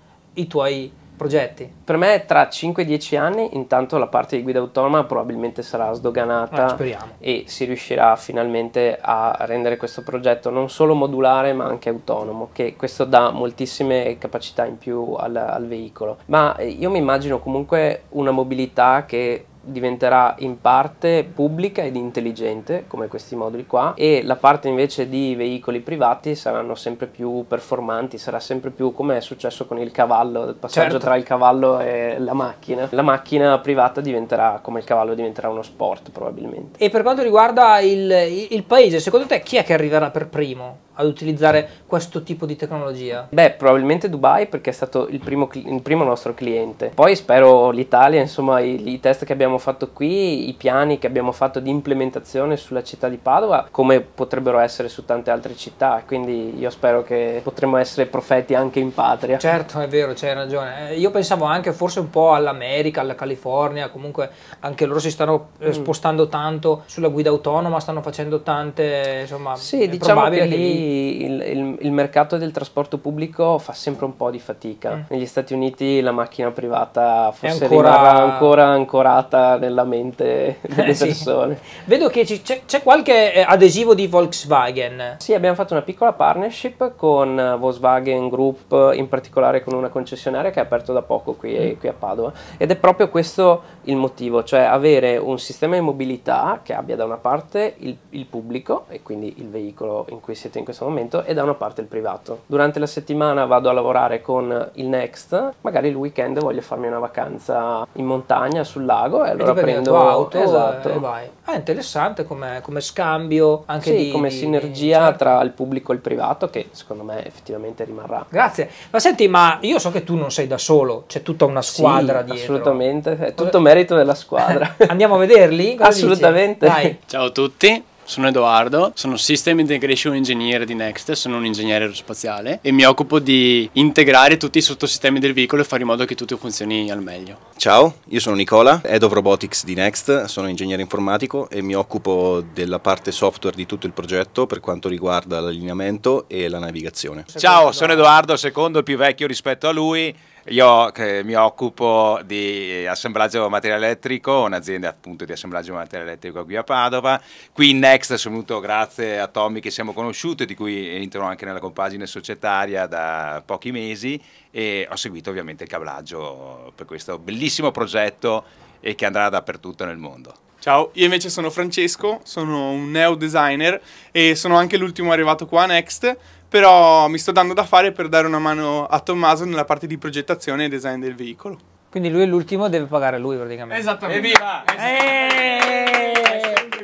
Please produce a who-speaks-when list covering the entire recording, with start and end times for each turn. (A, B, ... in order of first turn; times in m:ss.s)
0:00.4-0:01.7 A
0:01.9-0:36.8 B
0:06.5-0:07.1 A
0:30.7-0:31.1 A
0:36.8-0:43.3 A
0:43.3-0:59.4 B
0:59.4-1:10.8 A
1:09.6-1:21.6 B
1:17.4-1:18.5 A
1:20.7-1:21.2 A
1:21.8-1:25.2 A
1:25.2-1:51.0 B
1:49.4-1:55.3 A
1:53.8-1:58.3 B
1:58.3-2:02.8 A
2:01.7-2:04.9 B
2:04.8-2:07.0 A
2:05.8-2:07.0 B
2:07.1-2:17.4 C
2:17.5-2:27.3 D
2:27.3-2:28.2 A
2:27.3-2:50.4 E
2:50.6-3:01.6 F
3:01.9-3:06.7 A
3:04.1-3:04.6 E